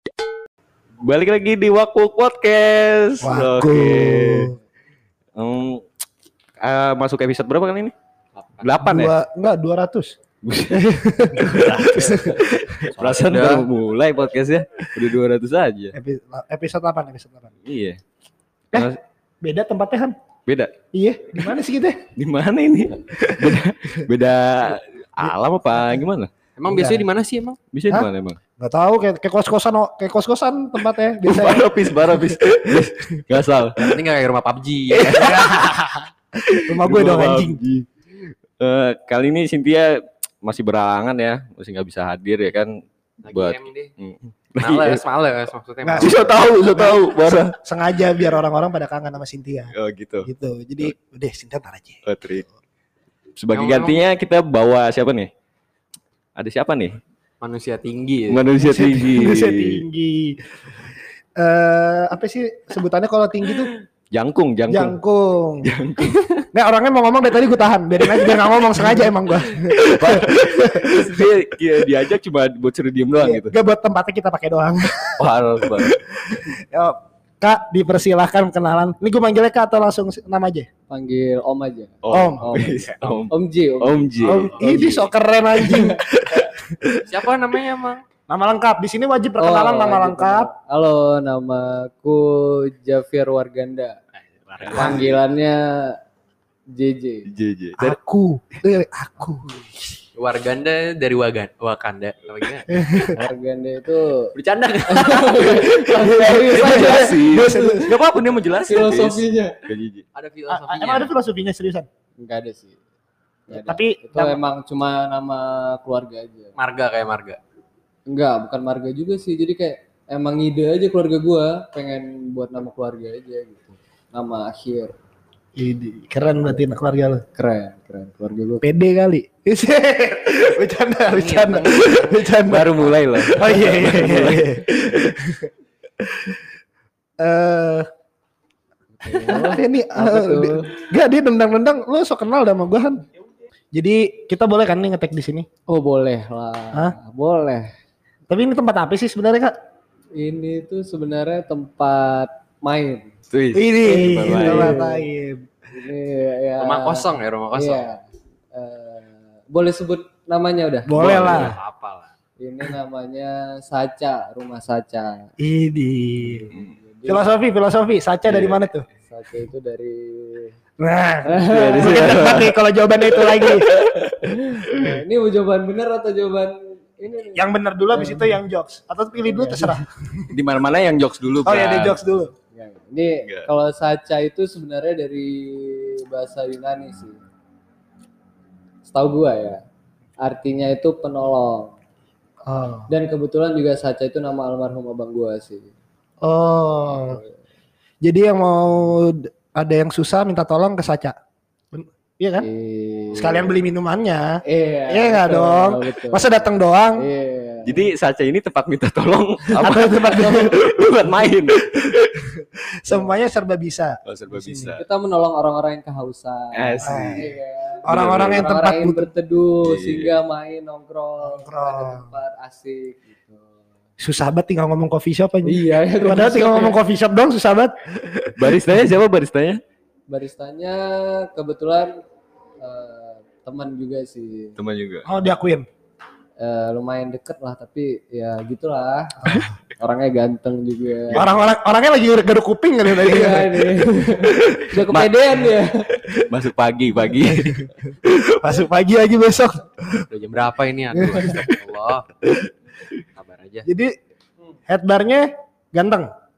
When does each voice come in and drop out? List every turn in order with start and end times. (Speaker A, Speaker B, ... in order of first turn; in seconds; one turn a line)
Speaker A: 1.0-4.5
Speaker B: 3.2-4.5
Speaker A: 5.3-5.8
Speaker A: 6.6-7.9
Speaker C: 8.3-8.7
Speaker A: 8.6-9.1
Speaker B: 8.8-10.1
Speaker A: 10.4-15.9
Speaker B: 10.7-12.9
Speaker C: 11.8-13.7
Speaker B: 15.9-17.5
Speaker A: 17.6-18.0
Speaker B: 18.7-20.1
Speaker A: 20.4-20.7
Speaker B: 20.9-22.1
Speaker A: 22.1-26.3
Speaker B: 23.2-24.0
Speaker C: 26.6-27.6
Speaker B: 26.7-27.0
Speaker A: 27.7-28.4
Speaker B: 27.9-31.7
Speaker A: 31.2-33.8
Speaker C: 33.8-35.5
Speaker A: 34.9-35.8
Speaker B: 35.0-37.6
Speaker A: 36.4-45.0
Speaker C: 43.2-43.9
Speaker C: 44.6-46.7
Speaker B: 45.8-52.0
Speaker A: 45.9-47.5
Speaker A: 49.7-50.3
Speaker A: 52.0-52.4
Speaker A: 53.4-55.3
Speaker C: 53.5-54.0
Speaker A: 56.4-57.0
Speaker C: 57.4-58.5
Speaker A: 58.3-59.8
Speaker B: 58.6-63.7
Speaker A: 64.1-64.9
Speaker B: 64.7-65.7
Speaker A: 65.6-66.4
Speaker B: 66.5-71.2
Speaker A: 68.1-73.5
Speaker B: 73.2-80.7
Speaker A: 75.2-75.9
Speaker D: 80.9-84.6
Speaker A: 82.0-84.5
Speaker B: 82.1-82.7
Speaker B: 84.2-86.6
Speaker C: 84.6-85.1
Speaker A: 85.6-87.0
Speaker C: 87.0-88.0
Speaker B: 88.3-90.5
Speaker D: 89.4-94.0
Speaker C: 94.2-95.0
Speaker A: 94.6-95.1
Speaker D: 94.7-96.0
Speaker D: 96.7-97.3
Speaker A: 97.3-97.9
Speaker B: 97.8-99.9
Speaker C: 100.1-102.7
Speaker B: 102.7-103.2
Speaker D: 103.1-104.3
Speaker A: 104.3-110.0
Speaker D: 104.9-107.9
Speaker B: 106.0-108.0
Speaker D: 108.7-109.6
Speaker C: 110.1-111.1
Speaker B: 110.5-111.9
Speaker D: 112.2-112.8
Speaker D: 113.5-116.5
Speaker B: 113.5-114.4
Speaker C: 116.6-117.4
Speaker D: 118.1-124.9
Speaker B: 125.5-127.2
Speaker D: 127.3-128.6
Speaker B: 128.6-135.5
Speaker C: 131.1-133.0
Speaker A: 132.4-134.6
Speaker B: 136.0-136.4
Speaker B: 137.2-137.9
Speaker D: 139.0-140.7
Speaker B: 139.1-143.0
Speaker B: 143.7-145.5
Speaker D: 145.7-147.7
Speaker B: 148.3-149.5
Speaker D: 150.2-153.1
Speaker A: 153.3-154.8
Speaker B: 153.5-155.5
Speaker D: 154.2-155.0
Speaker D: 155.7-158.0
Speaker C: 156.6-157.8
Speaker D: 158.5-160.9
Speaker B: 160.8-161.5
Speaker A: 161.0-161.5
Speaker C: 161.0-162.1
Speaker D: 162.4-165.3
Speaker B: 165.4-166.5
Speaker A: 166.5-166.7
Speaker D: 166.8-167.3
Speaker B: 167.1-168.8
Speaker A: 168.3-168.6
Speaker D: 169.1-170.6
Speaker B: 170.8-173.7
Speaker D: 171.2-172.3
Speaker A: 171.5-172.6
Speaker A: 173.1-174.9
Speaker D: 174.2-178.4
Speaker B: 177.3-180.4
Speaker D: 179.1-179.8
Speaker A: 180.3-181.9
Speaker B: 181.4-182.3
Speaker D: 182.5-187.2
Speaker D: 188.8-189.6
Speaker D: 190.2-191.8
Speaker B: 192.4-192.9
Speaker D: 192.9-195.7
Speaker B: 196.2-197.2
Speaker D: 196.9-197.4
Speaker B: 198.0-201.2
Speaker B: 201.7-202.5
Speaker D: 202.4-203.5
Speaker B: 203.1-207.0
Speaker D: 204.4-206.4
Speaker D: 207.0-207.8
Speaker A: 207.6-212.2
Speaker B: 209.5-210.6
Speaker D: 209.8-210.3
Speaker B: 212.2-214.7
Speaker A: 214.0-214.8
Speaker D: 214.8-223.5
Speaker A: 216.5-217.2
Speaker B: 216.8-217.3
Speaker B: 217.8-219.1
Speaker A: 217.9-218.5
Speaker A: 219.6-220.1
Speaker B: 221.2-222.1
Speaker B: 224.0-228.7
Speaker D: 225.4-226.8
Speaker A: 228.4-229.6
Speaker D: 230.1-232.0
Speaker D: 232.6-234.6
Speaker A: 234.6-235.1
Speaker B: 235.0-235.7
Speaker D: 236.4-239.2
Speaker B: 239.2-239.5
Speaker D: 239.8-241.2
Speaker B: 241.1-243.9
Speaker D: 243.0-245.9
Speaker A: 244.5-245.5
Speaker A: 246.2-248.4
Speaker B: 247.2-247.6
Speaker B: 248.4-250.1
Speaker C: 250.1-252.1
Speaker B: 250.9-251.4
Speaker C: 253.1-253.7
Speaker B: 253.6-253.9
Speaker B: 254.7-256.1